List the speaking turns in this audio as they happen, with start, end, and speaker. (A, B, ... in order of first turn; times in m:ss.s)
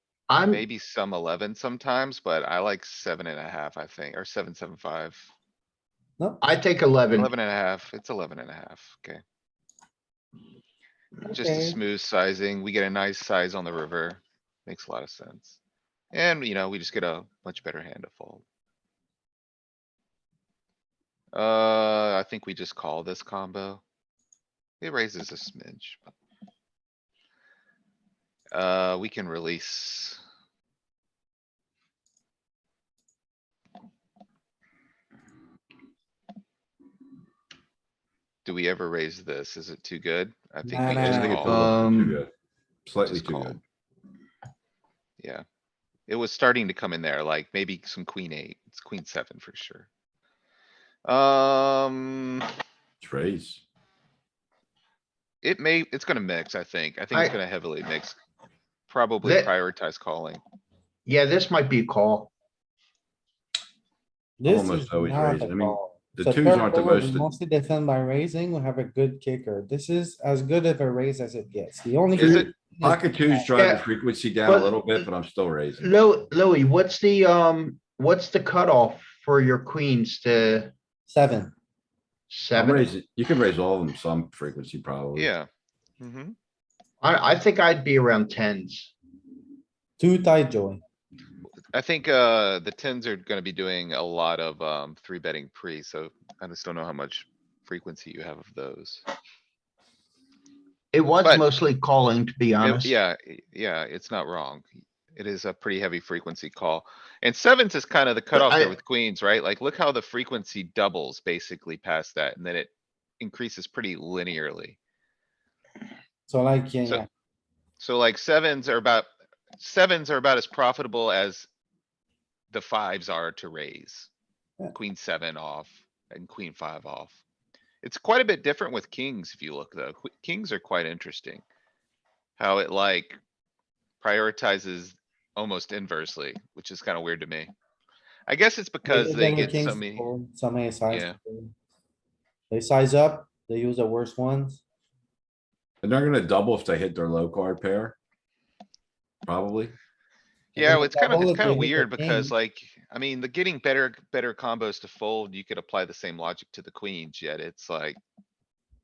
0:00.3-0:00.6 A
0:00.5-0:05.3 B
0:06.4-0:07.3 A
0:07.1-0:09.2 B
0:11.2-0:11.8 C
0:11.3-0:15.6 B
0:16.1-0:18.4 B
0:21.3-0:23.8 B
0:24.8-0:26.0 B
0:28.5-0:30.2 B
0:38.4-0:41.6 B
0:40.7-0:41.3 C
0:41.0-0:42.3 D
0:41.4-0:42.2 A
0:42.8-0:43.6 D
0:43.0-0:43.6 B
0:46.1-0:49.9 B
0:51.0-0:52.4 B
0:53.0-0:53.6 D
0:55.4-0:58.2 B
0:57.1-0:57.4 A
0:58.9-1:00.4 B
0:59.2-0:59.5 A
1:01.0-1:02.3 A
1:04.4-1:13.4 C
1:04.4-1:07.3 D
1:12.1-1:12.5 B
1:12.2-1:15.9 D
1:13.6-1:13.8 A
1:14.4-1:15.0 A
1:15.8-1:20.7 A
1:21.1-1:21.5 C
1:22.3-1:22.9 A
1:22.5-1:25.3 D
1:25.1-1:25.5 B
1:26.0-1:26.3 B
1:27.0-1:28.9 A
1:30.0-1:30.8 C
1:31.7-1:39.0 B
1:40.9-1:42.9 A
1:42.6-1:54.8 B
1:48.3-1:48.8 A
1:56.3-1:57.1 C
1:57.8-2:01.5 B
2:02.5-2:04.1 B
2:04.7-2:07.2 B
2:07.8-2:11.4 B
2:12.4-2:13.2 B
2:14.0-2:17.5 B
2:18.3-2:20.1 B
2:18.8-2:21.5 C
2:20.9-2:21.2 B
2:22.5-2:24.6 C
2:25.8-2:28.0 D
2:29.2-2:29.7 D
2:30.5-2:38.0 B
2:30.6-2:32.3 C